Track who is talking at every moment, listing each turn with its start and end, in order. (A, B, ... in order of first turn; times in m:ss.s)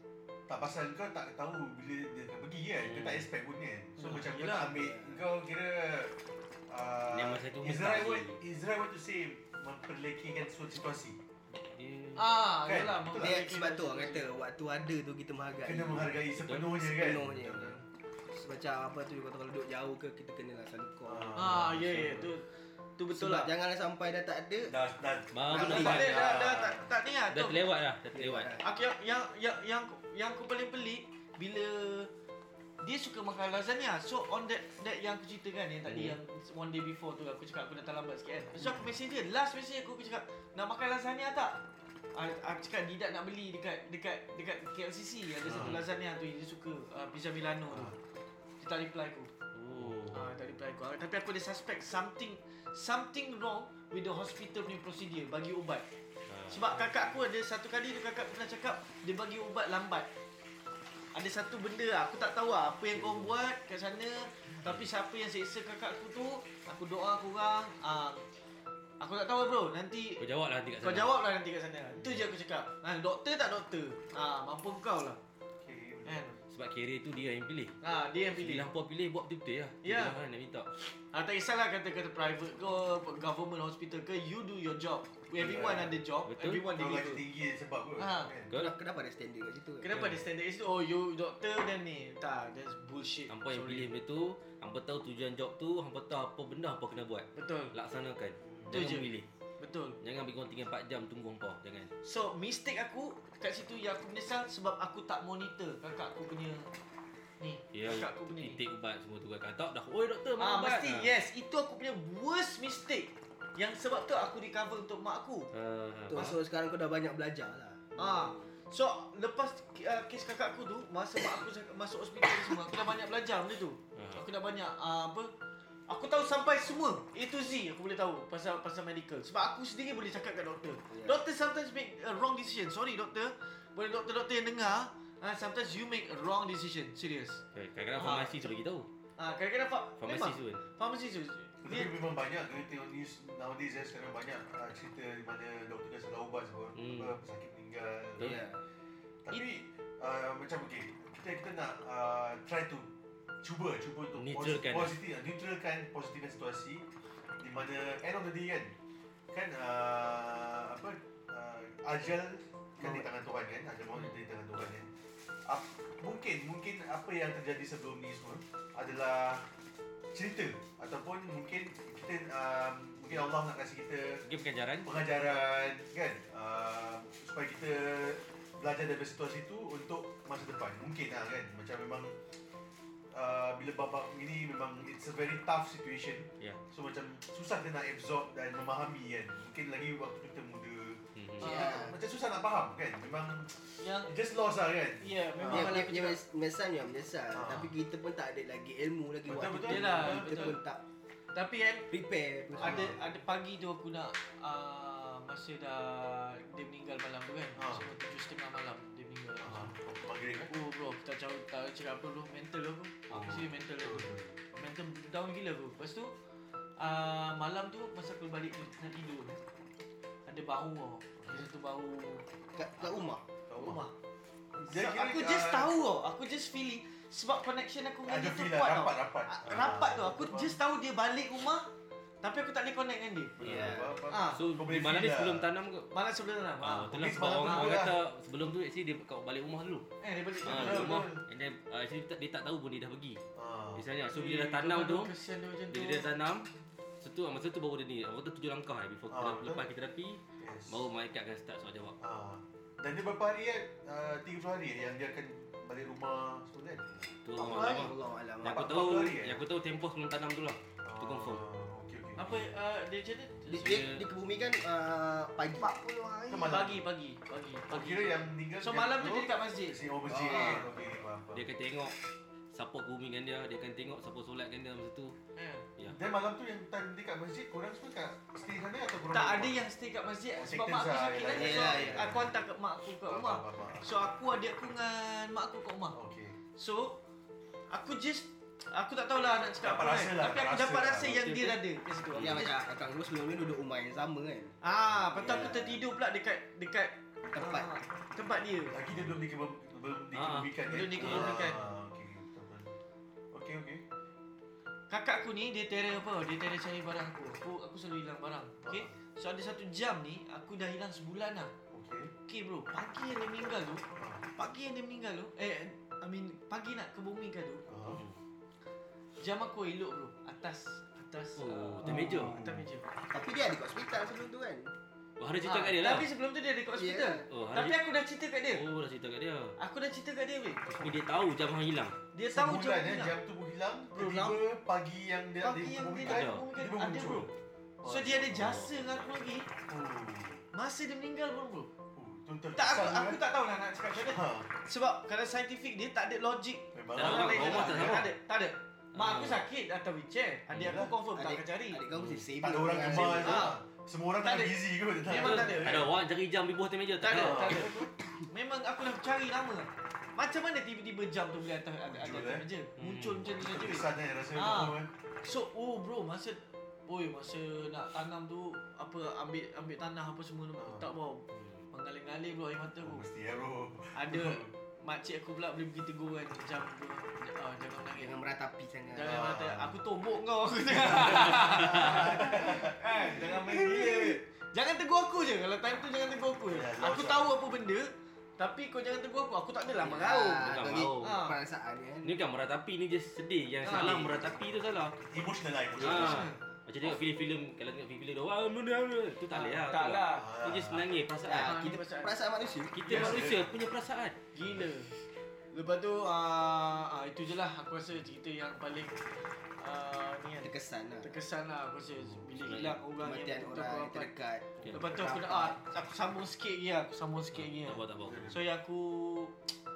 0:00.5-0:06.1 A
0:02.8-0:03.3 B
0:04.0-0:04.7 C
0:04.7-0:05.2 D
0:06.7-0:11.2 A
0:07.1-0:08.4 B
0:11.5-0:12.3 B
0:12.2-0:14.2 C
0:12.6-0:13.4 A
0:13.2-0:16.2 D
0:15.6-0:17.8 A
0:16.4-0:16.8 B
0:16.7-0:21.5 D
0:21.1-0:22.4 A
0:21.4-0:22.5 C
0:23.0-0:23.5 C
0:23.1-0:24.7 D
0:24.7-0:26.8 A
0:25.3-0:26.6 B
0:25.5-0:26.1 D
0:25.6-0:27.7 C
0:27.3-0:28.6 B
0:28.1-0:28.6 D
0:28.6-0:32.1 C
0:32.8-0:41.6 C
0:35.9-0:36.2 B
0:38.6-0:38.9 A
0:42.1-0:47.9 C
0:45.4-0:45.8 A
0:45.5-0:45.8 B
0:47.7-0:47.9 A
0:48.6-0:49.3 C
0:49.5-0:50.3 B
0:50.1-0:55.8 C
0:56.3-0:57.2 B
0:56.5-1:00.1 C
1:01.1-1:08.2 C
1:02.9-1:03.3 B
1:09.0-1:10.2 C
1:10.2-1:11.1 B
1:10.8-1:15.2 C
1:11.8-1:12.2 A
1:15.6-1:16.2 A
1:16.0-1:16.4 C
1:16.5-1:17.8 B
1:17.8-1:18.7 C
1:18.3-1:20.7 B
1:19.8-1:20.2 C
1:20.8-1:27.2 C
1:25.4-1:26.0 A
1:26.3-1:26.6 B
1:26.7-1:28.5 A
1:28.0-1:28.3 C
1:28.5-1:30.0 D
1:29.8-1:33.9 C
1:29.9-1:30.2 B
1:33.3-1:39.3 B
1:37.4-1:37.7 C
1:38.4-1:38.8 A
1:38.7-1:40.0 C
1:40.0-1:41.9 B
1:42.0-1:46.7 C
1:47.4-1:48.6 C
1:47.7-1:51.1 B
1:50.4-1:55.5 C
1:55.5-1:56.4 B
1:56.1-1:58.4 D
1:58.0-2:05.3 C
2:04.0-2:04.2 B
2:05.9-2:17.4 C
2:10.9-2:11.2 D
2:17.5-2:18.9 B
2:18.0-2:18.5 C
2:19.2-2:21.9 C
2:20.0-2:20.6 B
2:21.6-2:28.5 A
2:26.8-2:27.2 B
2:28.2-2:28.6 D
2:29.2-2:32.9 A
2:33.4-2:36.8 A
2:34.2-2:35.0 B
2:37.4-2:38.7 A
2:39.3-2:44.9 A
2:45.5-2:49.4 A
2:50.1-2:54.2 A
2:54.2-2:54.9 B
2:54.8-3:02.2 A
3:03.1-3:15.8 A
3:11.2-3:11.5 B
3:11.4-3:12.0 D
3:11.4-3:12.0 C
3:13.8-3:14.1 C
3:15.0-3:16.2 C
3:15.5-3:20.8 D
3:17.4-3:17.7 A
3:19.3-3:20.6 A
3:19.6-3:20.6 C
3:21.3-3:21.9 C
3:21.9-3:22.9 D
3:22.6-3:29.8 C
3:22.6-3:23.0 A
3:27.6-3:27.9 A
3:29.4-3:30.5 A
3:30.5-3:36.1 C
3:33.1-3:34.4 A
3:36.8-3:39.4 C
3:40.3-3:42.2 C
3:41.2-3:41.5 A
3:42.6-3:43.2 D
3:43.5-3:43.8 A
3:43.6-3:43.9 C
3:44.5-3:45.7 A
3:44.7-3:51.7 C
3:48.1-3:50.6 A
3:52.2-3:53.4 C
3:53.4-3:55.5 A
3:53.4-3:53.9 D
3:53.4-3:56.0 B
3:54.1-3:54.5 C
3:55.9-3:56.9 C
3:56.6-3:59.9 B
3:56.9-3:58.0 A
3:57.4-3:57.8 C
4:00.0-4:01.1 C
4:00.4-4:01.2 A
4:00.5-4:03.2 B
4:03.4-4:03.9 A
4:03.8-4:05.1 B
4:04.1-4:06.1 C
4:05.7-4:06.5 B
4:07.0-4:12.0 B
4:09.1-4:09.6 A
4:10.4-4:10.8 A
4:12.0-4:16.8 A
4:17.0-4:21.4 B
4:17.4-4:18.8 D
4:18.4-4:19.4 A
4:20.8-4:22.3 A
4:22.2-4:23.8 C
4:23.5-4:24.1 B
4:23.5-4:26.6 D
4:26.3-4:26.8 A
4:26.4-4:30.6 C
4:27.7-4:31.4 A
4:30.1-4:30.7 D
4:31.3-4:32.0 B
4:32.5-4:35.2 B
4:35.4-4:35.7 C
4:35.9-4:39.6 A
4:39.1-4:46.0 C
4:40.4-4:42.4 A
4:41.3-4:42.1 D
4:43.1-4:44.0 A
4:45.9-4:46.4 A
4:46.6-4:47.0 C
4:47.7-4:52.5 C
4:49.6-4:51.2 A
4:51.0-4:52.4 B
4:52.2-4:54.6 D
4:54.6-4:58.8 C
4:55.2-4:55.6 B
4:55.2-4:55.7 D
4:57.3-4:57.7 D
4:58.7-5:02.7 A
5:00.1-5:01.5 B
5:00.6-5:01.6 C
5:03.3-5:03.8 A
5:04.9-5:11.5 C
5:08.6-5:08.9 A
5:11.7-5:12.1 A
5:12.3-5:17.6 C
5:14.0-5:14.3 A
5:17.7-5:18.0 A
5:17.9-5:18.2 B
5:19.2-5:22.9 C
5:21.4-5:22.4 B
5:21.8-5:22.7 A
5:23.1-5:24.7 D
5:25.2-5:26.1 B
5:25.4-5:28.6 C
5:26.8-5:27.2 D
5:27.3-5:27.8 B
5:28.5-5:29.6 B
5:29.6-5:30.7 C
5:30.7-5:32.0 B
5:30.7-5:31.0 A
5:32.1-5:33.2 C
5:32.3-5:38.5 A
5:34.0-5:34.4 C
5:35.4-5:37.3 C
5:36.0-5:36.5 B
5:37.8-5:39.5 C
5:38.3-5:39.0 B
5:39.7-5:40.4 A
5:40.5-5:41.7 C
5:41.9-5:43.2 A
5:42.6-5:51.8 C
5:44.0-5:44.5 A
5:46.7-5:48.1 A
5:47.0-5:48.1 B
5:48.9-5:49.4 B
5:50.5-5:50.9 A
5:50.5-5:50.8 B
5:51.1-5:53.5 D
5:51.9-5:52.3 B
5:52.4-5:55.9 A
5:52.9-5:53.6 C
5:54.2-5:55.9 C
5:55.1-5:57.7 B
5:57.0-6:13.0 C
5:57.1-5:57.9 A
6:01.9-6:02.5 A
6:02.8-6:03.3 B
6:03.3-6:04.9 A
6:10.6-6:10.9 A
6:11.3-6:11.6 B
6:12.8-6:14.5 A
6:13.9-6:18.2 C
6:18.0-6:19.2 D
6:18.9-6:30.5 C
6:19.0-6:19.8 A
6:20.9-6:24.0 A
6:20.9-6:22.8 D
6:26.5-6:27.3 A
6:29.8-6:32.2 D
6:30.3-6:31.2 B
6:31.0-6:31.4 C
6:32.0-6:35.0 B
6:33.6-6:34.2 C
6:33.8-6:34.0 A
6:35.1-6:36.3 A
6:35.8-6:41.6 B
6:35.8-6:36.4 C
6:39.3-6:40.3 C
6:40.1-6:40.8 A
6:41.2-6:43.1 D
6:41.4-6:42.2 C
6:42.7-6:44.2 B
6:42.9-6:43.5 A
6:44.3-6:44.9 C
6:45.5-6:49.0 C
6:49.6-6:54.1 C
6:50.4-6:51.2 D
6:52.4-6:52.8 B
6:53.0-6:55.6 D
6:54.7-6:59.4 C
6:57.3-6:58.3 B
6:58.0-6:58.4 A